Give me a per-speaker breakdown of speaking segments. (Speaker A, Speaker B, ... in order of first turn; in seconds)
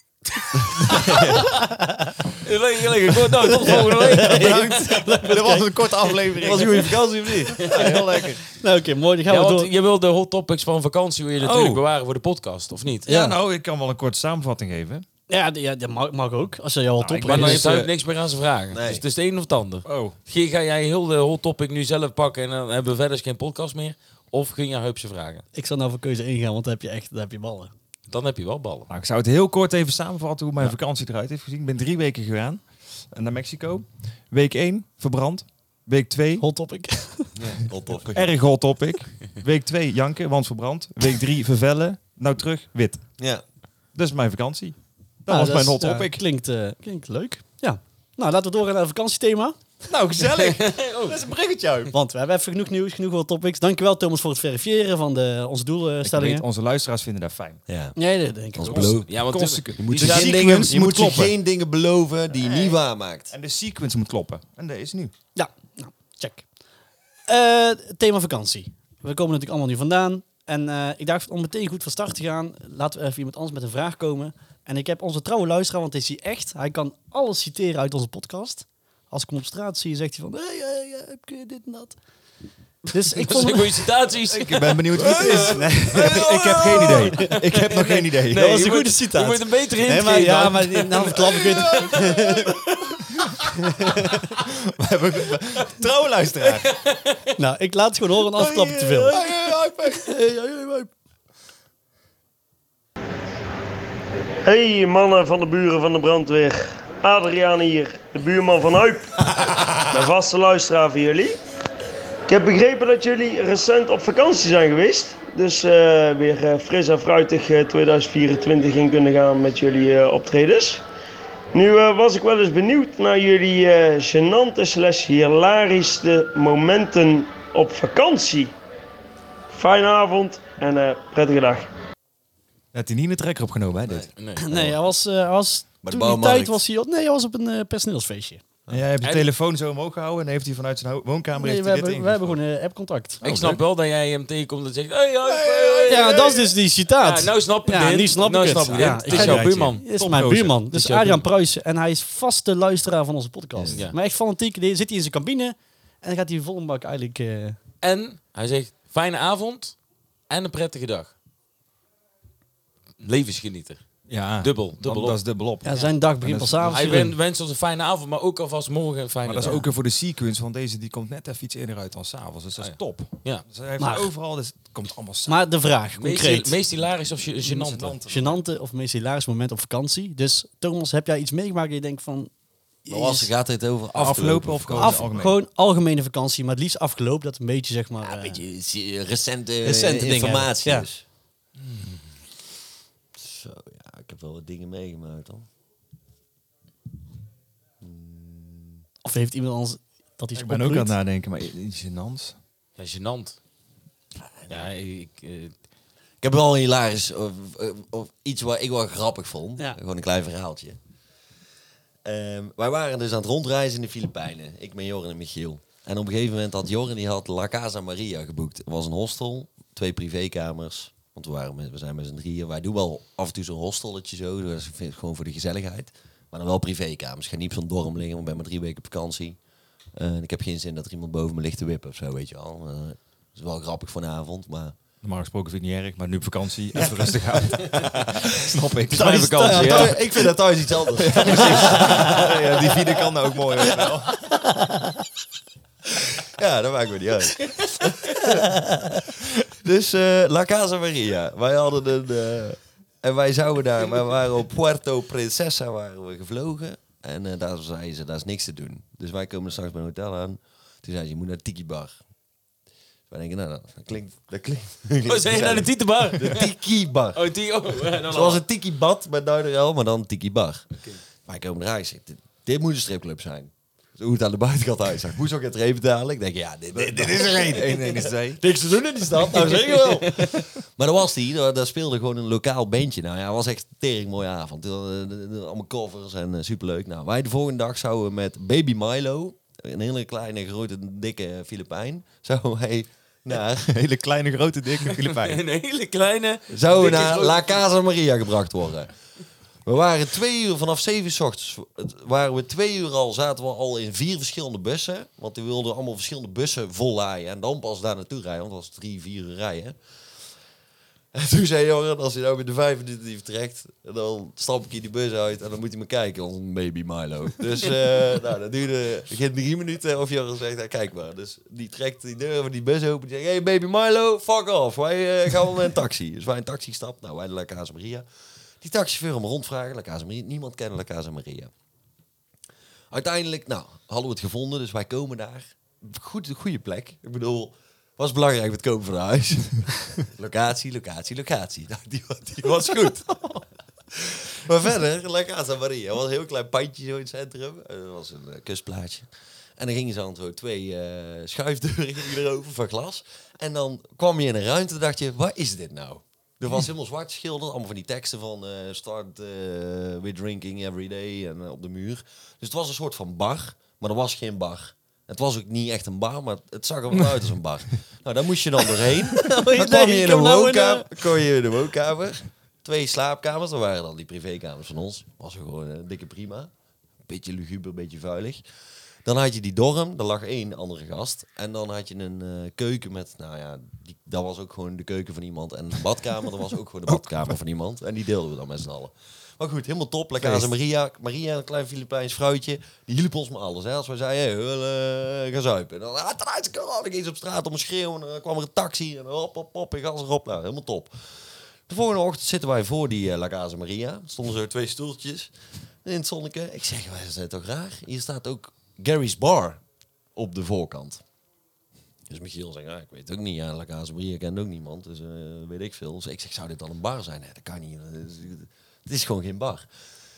Speaker A: 0.8-1.4, 4.1-8.4, 11.4-11.8, 13.1-15.1, 17.0-17.9, 19.9-20.2, 28.9-36.4, 38.1-43.1, 43.9-46.2, 49.9-51.9, 56.0-57.6, 58.7-61.4, 62.3-62.8, 63.3-65.1, 84.3-88.6, 91.1-93.4, 94.3-96.8, 98.4-100.4, 132.7-134.1, 138.7-142.4, 143.2-143.6, 145.2-146.2, 148.8-150.6, 164.1-167.1, 169.3-175.4, 177.5-178.4, 183.9-185.4, 200.3-202.4, 235.0-239.9, 241.0-244.2, 276.7-278.4, 293.7-295.4, 390.2-390.5
Speaker B: 1.1-1.4, 2.4-4.5, 9.3-13.1, 17.3-25.4, 28.1-28.9, 50.3-51.2, 59.0-60.3, 83.2-92.9, 96.4-97.2, 134.2-134.4, 139.0-139.3, 143.2-146.4, 147.0-149.8, 150.7-151.2, 157.8-161.1, 163.0-165.2, 166.7-169.6, 172.6-173.4, 176.0-178.0, 202.8-203.4, 204.5-205.5, 238.9-240.0, 241.3-242.0, 265.1-266.5, 267.1-268.4, 279.3-280.3, 294.8-297.6
Speaker C: 1.5-2.1, 3.7-6.6, 8.5-9.7, 13.1-13.4, 15.3-17.6, 25.5-27.7, 36.4-37.3, 45.3-49.6, 51.9-56.5, 58.0-59.0, 65.3-66.5, 67.3-82.0, 82.9-83.8, 85.3-92.6, 93.6-94.2, 97.4-99.2, 100.0-100.9, 134.4-138.4, 141.4-143.2, 145.9-157.6, 165.6-167.1, 173.8-174.1, 175.3-176.6, 178.0-182.3, 182.8-183.3, 184.8-188.4, 189.6-190.9, 199.0-200.9, 239.0-239.9, 244.5-244.9, 369.2-371.0
Speaker D: 6.4-7.8, 18.7-19.0, 37.4-38.3, 57.7-58.0, 58.5-59.2, 59.8-63.3, 133.9-134.7, 135.8-136.6, 182.9-185.0, 188.0-191.0, 193.2-195.5, 197.8-198.8, 204.3-204.7, 206.2-210.8, 212.1-229.4, 229.9-234.8, 239.5-243.1, 243.6-243.9, 246.2-248.4, 249.6-262.0, 263.1-267.2, 267.9-293.7, 296.5-299.0, 299.6-309.8, 311.1-328.1, 328.6-331.5, 332.9-376.5, 377.1-378.4, 379.1-401.0, 401.7-409.6, 410.1-411.0, 412.1-419.7
Speaker E: 104.4-109.2, 109.8-111.4, 112.3-120.8, 121.5-128.5, 129.5-131.7